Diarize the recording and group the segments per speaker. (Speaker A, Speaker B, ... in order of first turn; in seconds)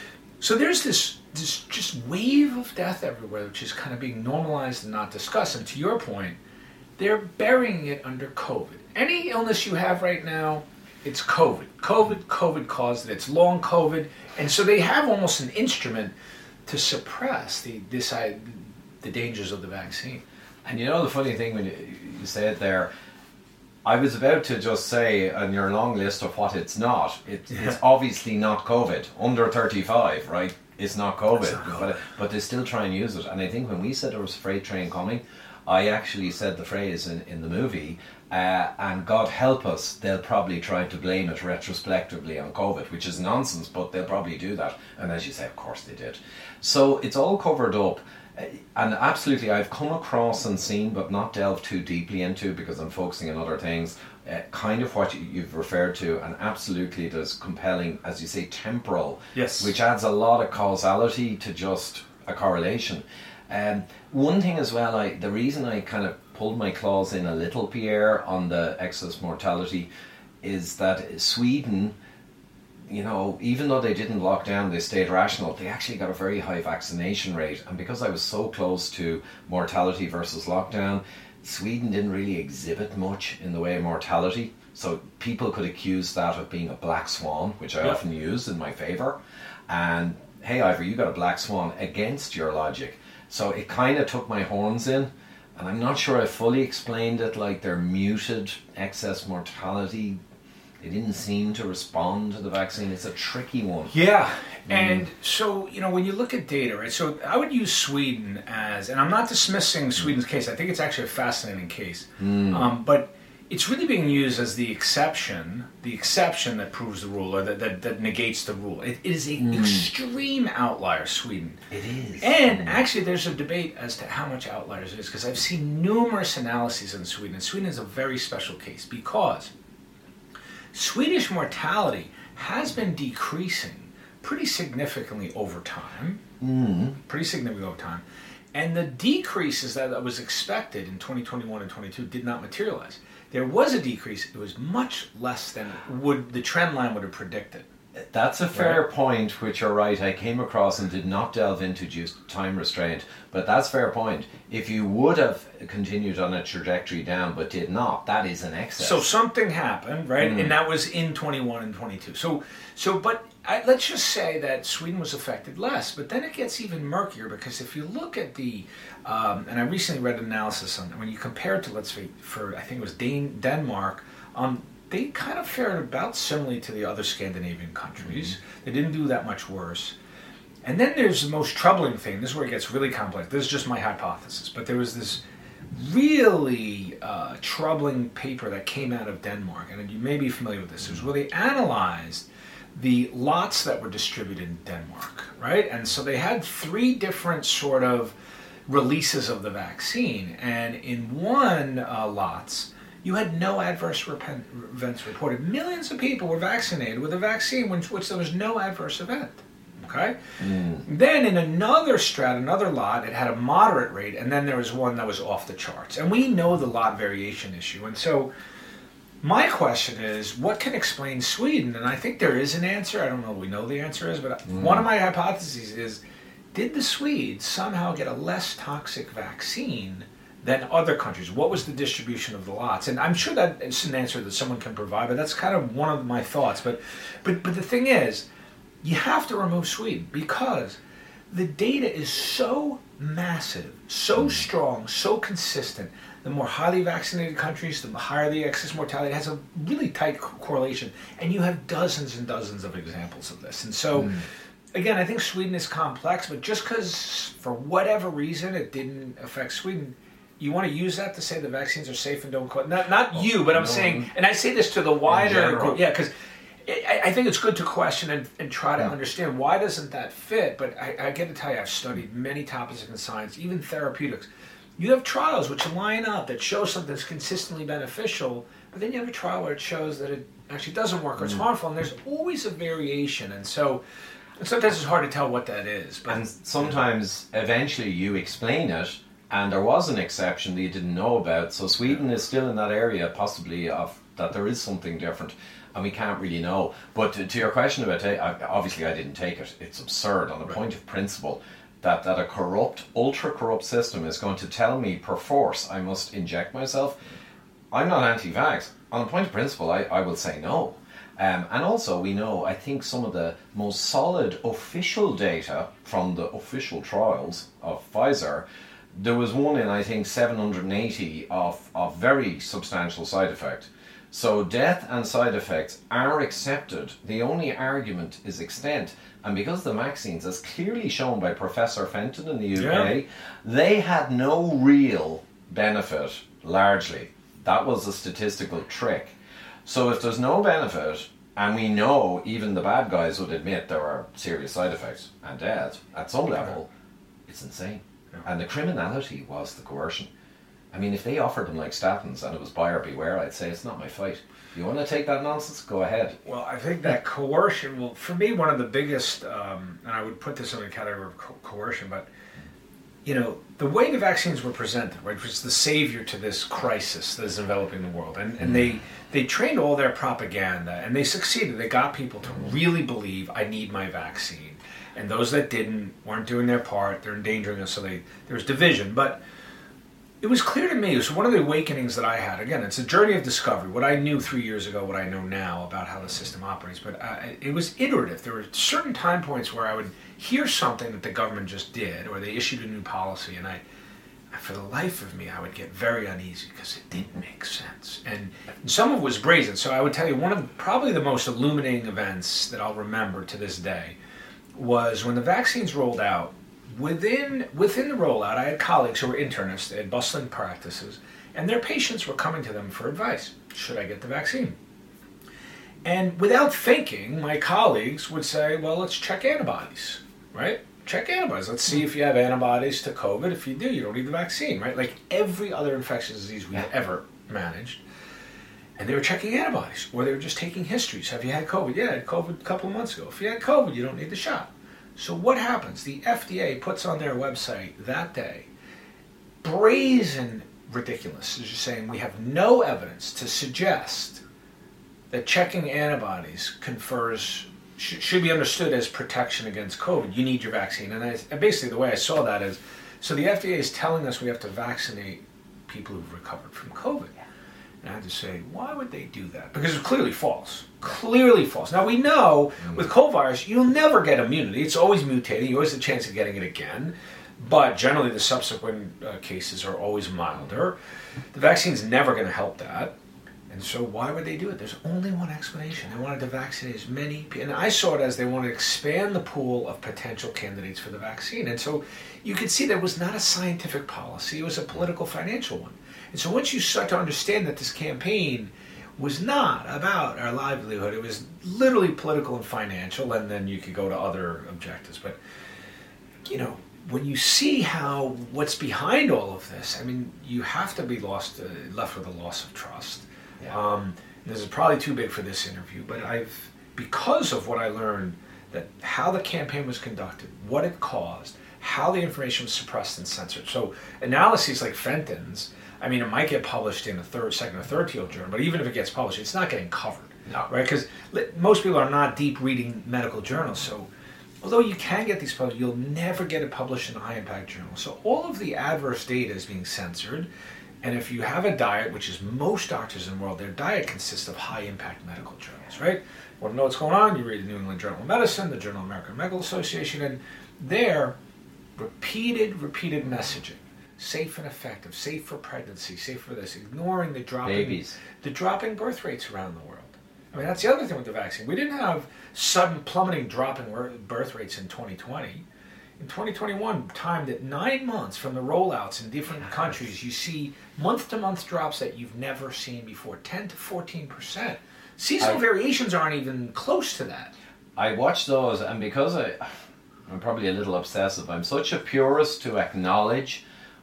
Speaker A: 0.4-6.4, 7.0-16.1, 16.7-20.2, 31.4-31.9, 59.4-59.7, 103.9-121.6, 122.2-129.5, 130.7-136.2, 137.0-138.0, 138.5-147.7, 158.8-179.9, 180.6-185.2, 185.7-198.1, 198.7-218.3, 219.2-226.0, 226.5-238.3, 238.8-240.8, 241.3-266.1, 266.6-283.8, 284.4-286.2, 332.6-332.9, 356.2-362.1, 363.1-379.2, 380.2-393.6, 394.3-404.0, 404.5-414.6, 415.9-427.8, 428.8-438.5, 439.4-444.2, 445.1-457.1, 457.8-470.8, 471.3-472.9, 473.5-495.2, 496.3-523.9, 524.4-530.3, 530.8-541.2, 541.8-555.4, 556.0-567.4
Speaker B: 20.6-22.9, 23.9-69.9, 70.4-72.0, 72.9-100.2, 100.8-103.9, 104.7-105.0, 112.2-112.7, 119.4-119.8, 121.7-122.8, 136.4-137.0, 148.0-159.1, 160.2-160.5, 210.4-210.8, 263.1-264.1, 265.1-265.8, 286.1-307.0, 307.7-339.1, 339.7-346.7, 347.3-350.1, 350.7-356.2, 547.4-548.0, 567.8-569.5, 570.1-573.4